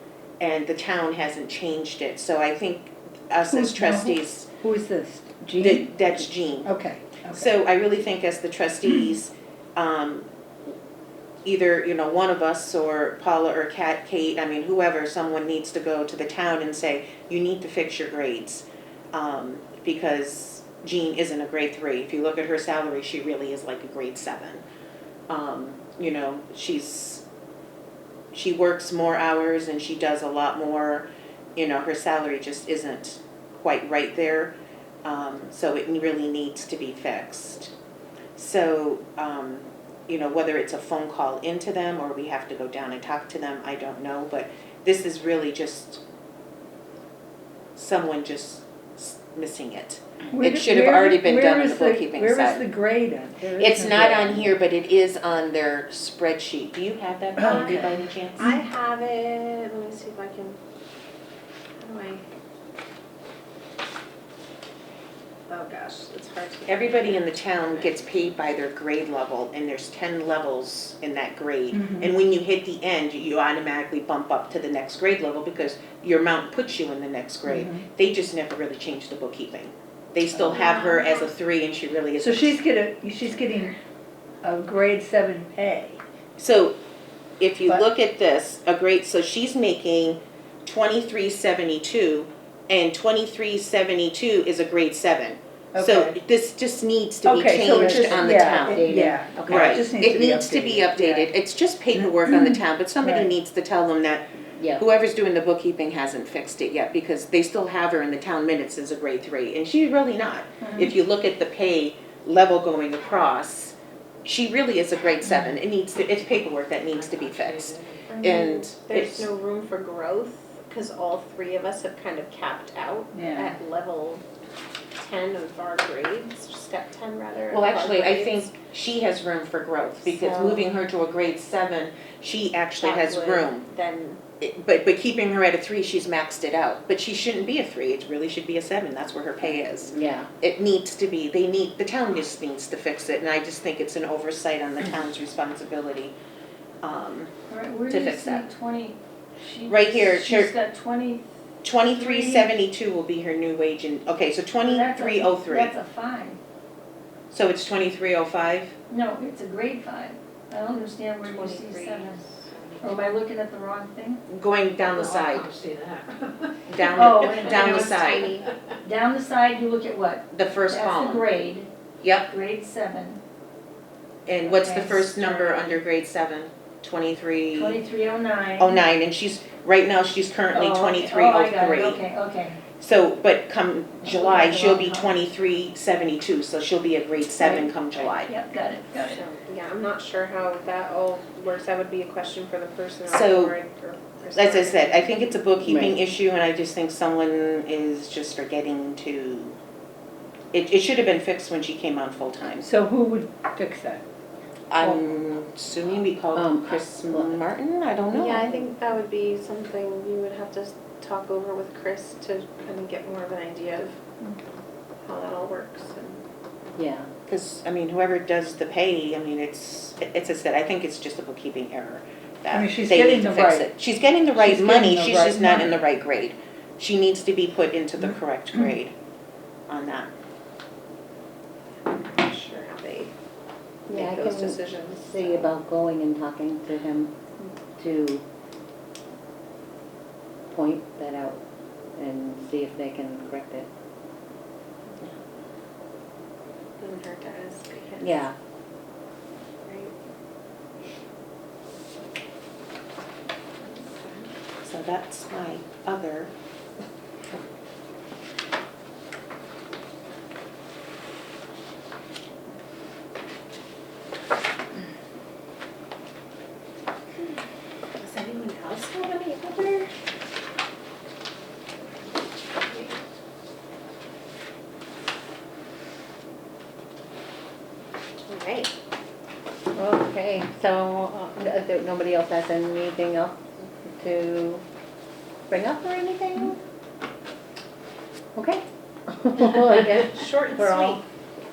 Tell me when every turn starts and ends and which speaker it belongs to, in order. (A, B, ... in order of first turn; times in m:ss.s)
0:00.4-0:04.5 A
0:03.5-0:05.9 B
0:05.6-0:06.7 A
0:06.6-0:07.5 B
0:07.3-0:10.3 A
0:11.4-0:24.6 A
0:25.3-0:27.2 A
0:28.3-0:37.7 A
0:38.4-0:46.0 A
0:47.8-0:52.6 A
0:50.3-0:54.5 B
0:53.6-0:58.5 A
0:57.4-0:57.8 B
0:57.4-1:00.6 C
1:01.8-1:02.2 C
1:05.5-1:08.0 C
1:06.6-1:22.6 A
1:11.8-1:12.0 B
1:17.4-1:17.8 B
1:20.5-1:21.2 C
1:22.2-1:23.7 B
1:24.4-1:26.0 B
1:26.4-1:26.8 A
1:27.4-1:38.9 A
1:35.7-1:36.2 B
1:37.2-1:41.3 B
1:37.9-1:39.8 D
1:39.4-1:59.3 A
1:42.0-1:43.3 B
1:44.6-1:44.8 D
1:57.0-1:58.0 E
1:58.1-2:04.2 C
2:03.1-2:03.6 B
2:05.0-2:08.5 C
2:07.5-2:13.7 A
2:10.0-2:10.7 C
2:12.8-2:14.2 C
2:14.4-2:26.1 A
2:19.9-2:20.3 D
2:26.8-2:27.3 A
2:27.5-2:31.3 F
2:27.9-2:28.4 A
2:29.7-2:30.5 A
2:31.6-2:35.7 A
2:31.8-2:32.5 F
2:34.6-2:36.4 F
2:37.3-2:38.7 A
2:38.9-2:42.2 F
2:41.2-2:42.8 C
2:42.8-2:44.2 F
2:44.3-2:45.5 A
2:45.4-2:46.4 E
2:46.7-2:48.3 A
2:46.9-2:48.0 F
2:47.1-2:48.6 C
2:48.8-2:51.7 F
2:50.3-2:51.3 A
2:52.0-2:52.3 A
2:52.3-2:53.2 F
2:54.2-2:57.8 A
2:54.4-2:55.8 F
2:57.5-2:58.8 F
2:58.6-3:02.0 A
3:00.5-3:02.6 F
3:02.8-3:08.3 A
3:04.1-3:05.2 F
3:07.4-3:09.2 F
3:08.9-3:15.4 C
3:13.1-3:13.6 A
3:14.3-3:19.6 A
3:15.6-3:16.0 D
3:20.5-3:22.7 A
3:22.6-3:24.0 B
3:24.7-3:28.7 A
3:26.3-3:27.4 D
3:28.1-3:34.0 C
3:35.0-3:36.2 C
3:36.8-3:37.1 D
3:37.2-3:48.9 A
3:42.5-3:43.7 B
3:44.4-3:45.7 B
3:49.7-3:50.1 A
3:51.8-3:53.1 C
3:53.9-3:55.5 C
3:53.9-3:57.1 D
3:57.8-3:58.2 D
4:00.5-4:01.4 D
4:02.0-4:03.7 D
4:06.8-4:08.1 C
4:08.0-4:08.3 D
4:09.6-4:09.9 C
4:13.6-4:14.3 C
4:14.6-4:16.3 A
4:28.0-4:29.9 C
4:32.6-4:33.0 C
4:38.2-4:38.7 C
4:39.7-4:44.6 D
4:45.5-4:46.6 D
4:48.4-4:51.0 D
4:50.0-4:51.0 C